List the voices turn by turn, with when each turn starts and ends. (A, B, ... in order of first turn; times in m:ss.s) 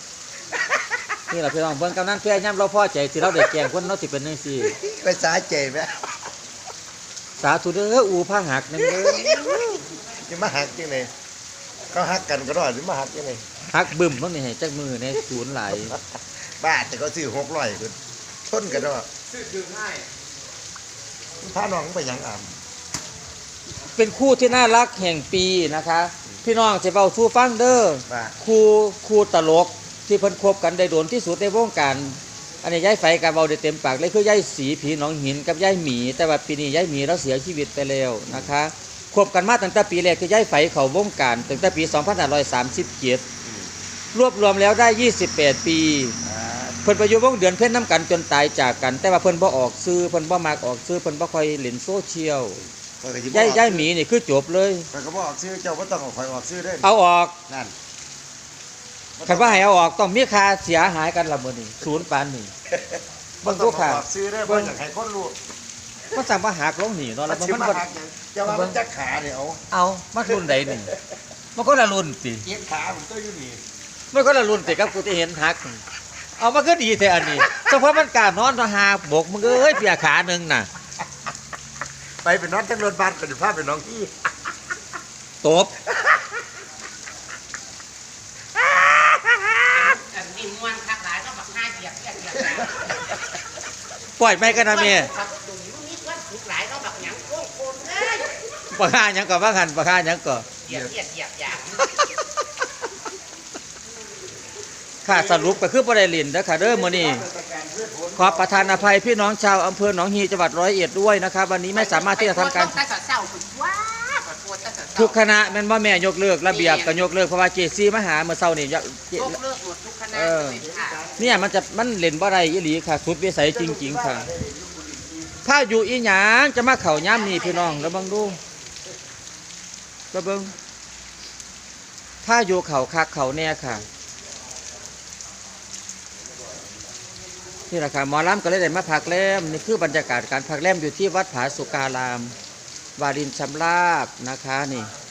0:01.3-0:04.7 A
0:04.6-0:05.9 B
0:07.4-0:09.8 A
0:08.8-0:11.1 B
0:11.9-0:13.4 B
0:13.7-0:15.9 A
0:15.7-0:16.0 B
0:16.6-0:17.9 B
0:18.5-0:19.1 B
0:21.4-0:22.5 B
0:23.9-0:43.2 A
0:28.1-0:28.4 B
0:44.1-0:46.2 A
0:46.2-0:46.8 B
0:46.8-0:52.6 A
0:53.0-0:53.9 B
0:53.3-0:54.9 A
0:54.9-0:56.9 B
0:56.8-0:57.3 A
0:57.5-0:57.7 B
0:59.2-0:59.7 B
0:59.3-1:02.5 A
1:02.7-1:05.4 B
1:03.4-1:04.7 A
1:06.1-1:07.8 A
1:07.3-1:09.6 B
1:08.4-1:08.8 A
1:09.7-1:10.9 A
1:10.3-1:11.0 B
1:11.5-1:12.4 A
1:12.4-1:13.6 B
1:14.1-1:15.8 A
1:16.4-1:20.7 A
1:22.2-1:24.1 B
1:25.4-1:25.7 A
1:28.6-1:29.6 B
1:29.7-1:33.0 C
1:34.2-1:35.1 A
1:34.4-1:38.3 C
1:38.7-1:40.5 A
1:40.6-1:41.8 C
1:45.0-1:47.2 A
1:45.0-1:45.6 B
1:46.6-1:49.0 B
1:48.2-1:52.8 A
1:51.7-1:55.2 C
1:55.0-1:59.4 A
1:56.4-1:57.1 C
1:59.1-2:01.0 C
2:00.1-2:00.6 A
2:00.6-2:01.5 B
2:01.2-2:04.3 A
2:03.5-2:05.3 B
2:05.4-2:08.4 A
2:06.8-2:08.0 C
2:10.1-2:10.5 A
2:12.2-2:13.8 A
2:17.7-2:22.3 A
2:23.0-2:24.9 A